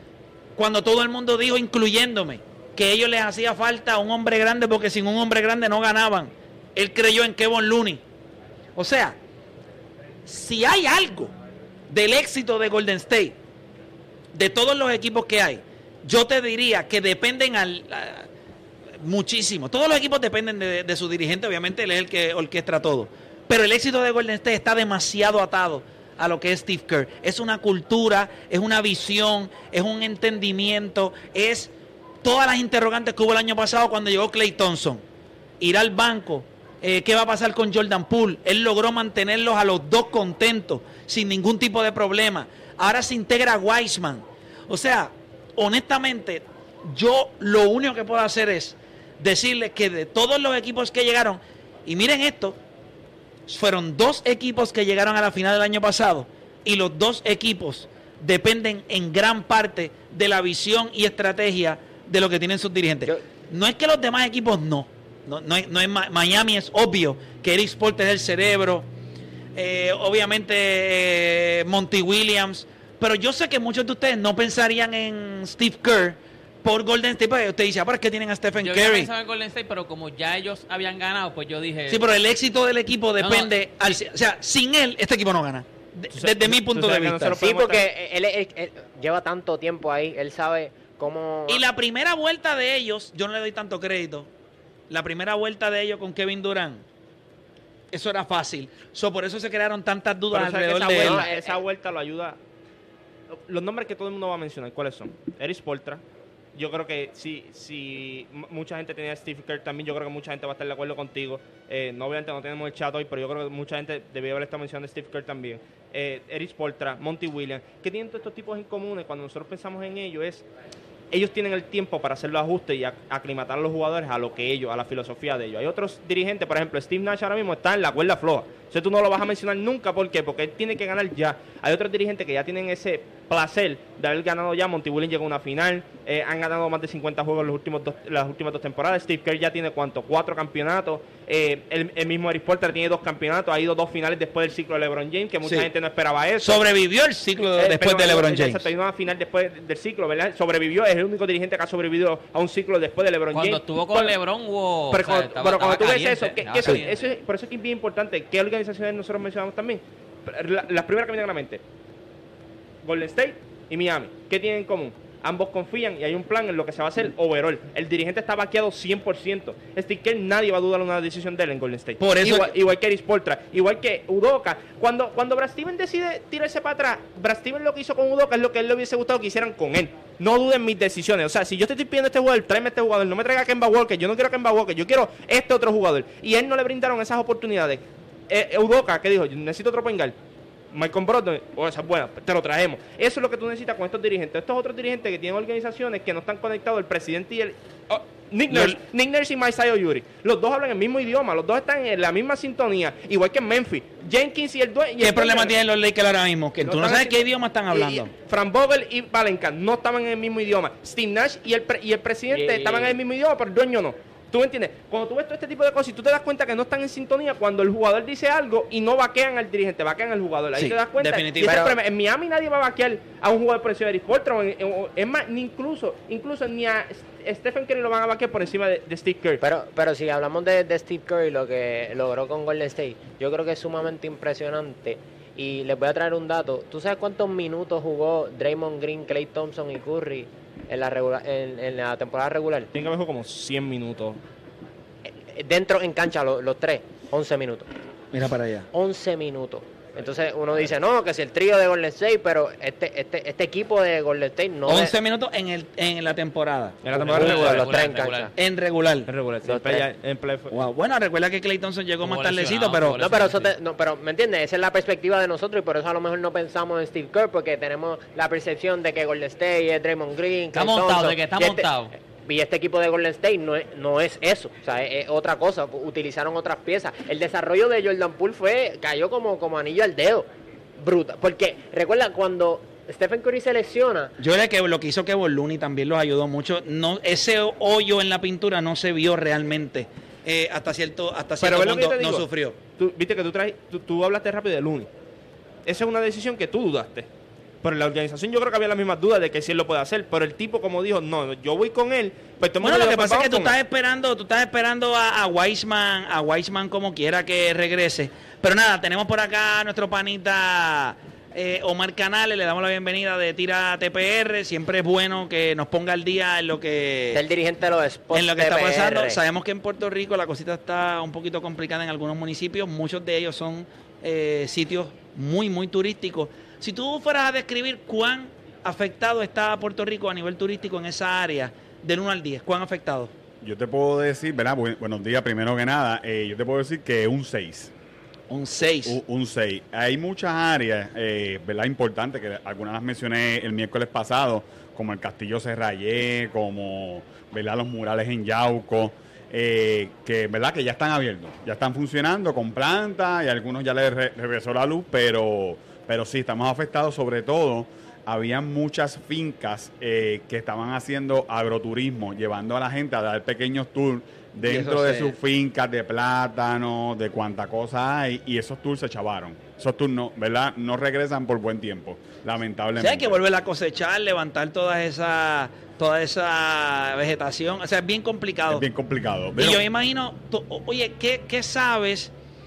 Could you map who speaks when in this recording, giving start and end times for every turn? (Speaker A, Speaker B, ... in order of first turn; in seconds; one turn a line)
Speaker A: 0.6-8.0
Speaker A: 8.8-9.2
Speaker A: 10.2-11.3
Speaker A: 11.9-13.4
Speaker A: 14.3-18.3
Speaker A: 19.0-31.7
Speaker A: 32.2-35.0
Speaker A: 35.6-52.6
Speaker A: 53.5-68.9
Speaker A: 69.5-79.1
Speaker B: 78.6-82.1
Speaker A: 81.9-87.4
Speaker B: 83.2-83.5
Speaker C: 86.1-87.8
Speaker D: 87.4-91.6
Speaker A: 91.5-94.3
Speaker A: 94.9-96.8
Speaker A: 97.9-101.2
Speaker C: 100.3-102.4
Speaker D: 101.0-101.6
Speaker C: 103.3-106.0
Speaker C: 106.5-120.5
Speaker C: 121.1-146.6
Speaker A: 146.4-148.7
Speaker C: 147.6-154.2
Speaker B: 153.3-157.0
Speaker C: 154.9-161.6
Speaker C: 162.8-190.1
Speaker A: 172.0-172.5
Speaker C: 190.7-205.5
Speaker A: 198.5-198.8
Speaker A: 205.0-208.1
Speaker C: 206.6-229.4
Speaker D: 212.3-213.0
Speaker A: 220.6-221.6
Speaker D: 221.4-221.8
Speaker D: 229.4-242.7
Speaker C: 242.8-244.2
Speaker D: 245.3-247.7
Speaker A: 248.1-248.7
Speaker D: 248.7-254.9
Speaker A: 254.7-257.6
Speaker C: 256.8-257.7
Speaker D: 257.1-258.3
Speaker B: 257.1-258.3
Speaker A: 258.4-259.1
Speaker C: 259.1-260.5
Speaker D: 259.4-259.9
Speaker A: 260.5-263.0
Speaker B: 262.0-263.5
Speaker D: 263.0-271.7
Speaker B: 270.5-271.9
Speaker D: 272.2-280.2
Speaker D: 280.8-284.1
Speaker A: 284.2-292.6
Speaker C: 291.4-292.3
Speaker C: 292.8-294.9
Speaker C: 295.6-297.1
Speaker C: 297.6-303.5
Speaker A: 302.6-317.2
Speaker D: 317.1-319.2
Speaker A: 318.1-333.1
Speaker E: 333.4-337.7
Speaker A: 338.3-339.0
Speaker E: 338.9-373.2
Speaker A: 364.4-365.1
Speaker A: 372.8-378.6
Speaker E: 378.5-379.6
Speaker A: 379.4-382.1